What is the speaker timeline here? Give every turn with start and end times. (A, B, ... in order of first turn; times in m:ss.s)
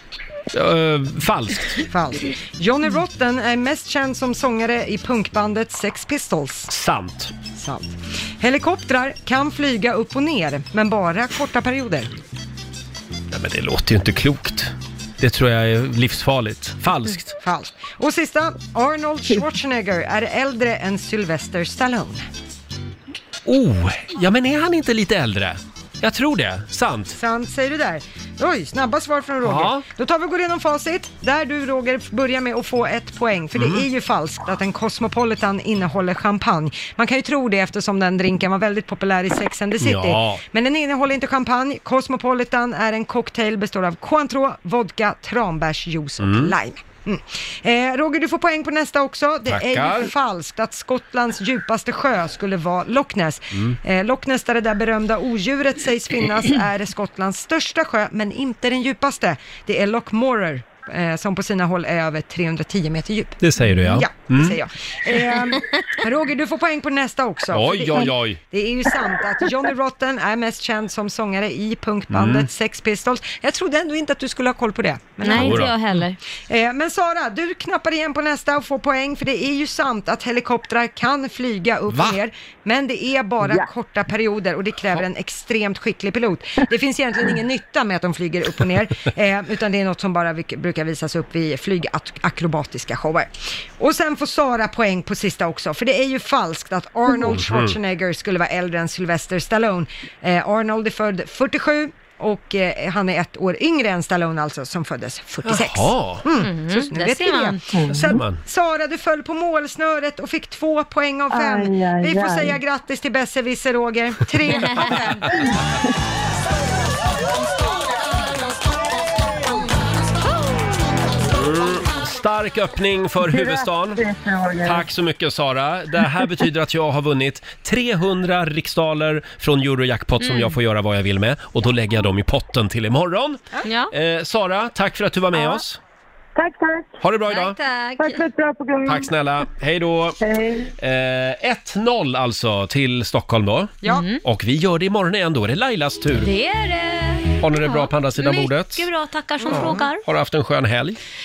0:00.5-0:01.8 A
0:01.9-0:06.7 B
0:06.7-0:07.3 A
0:07.5-0:12.1 B
0:13.3-0:17.4 A
0:17.4-0:22.3 B
0:23.4-0:27.2 A
0:27.1-1:15.7 B
0:29.4-0:29.8 A
0:33.6-0:33.8 A
0:39.8-0:40.4 A
0:46.2-0:46.5 A
0:49.5-0:50.1 A
1:03.4-1:04.6 A
1:03.8-1:04.0 C
1:07.5-1:08.4 A
1:12.1-1:12.5 A
1:15.2-1:16.2 C
1:15.4-1:15.7 A
1:16.5-1:55.6 B
1:21.9-1:22.2 A
1:37.2-1:37.8 A
1:45.4-1:46.3 A
1:46.4-1:47.6 C
1:47.7-1:48.2 D
1:47.9-1:48.4 A
1:51.3-1:52.6 D
1:54.6-1:55.0 C
2:01.3-2:04.0 A
2:03.3-2:04.8 D
2:04.6-2:15.8 A
2:10.2-2:10.6 C
2:13.6-2:13.9 C
2:15.3-2:15.6 C
2:16.3-2:17.0 D
2:17.0-2:17.6 A
2:17.3-2:18.2 C
2:18.0-2:19.1 D
2:18.8-2:20.2 A
2:20.2-2:20.7 D
2:20.8-2:26.3 A
2:23.8-2:24.2 C
2:26.2-2:30.0 C
2:27.4-2:28.8 A
2:29.5-2:31.0 A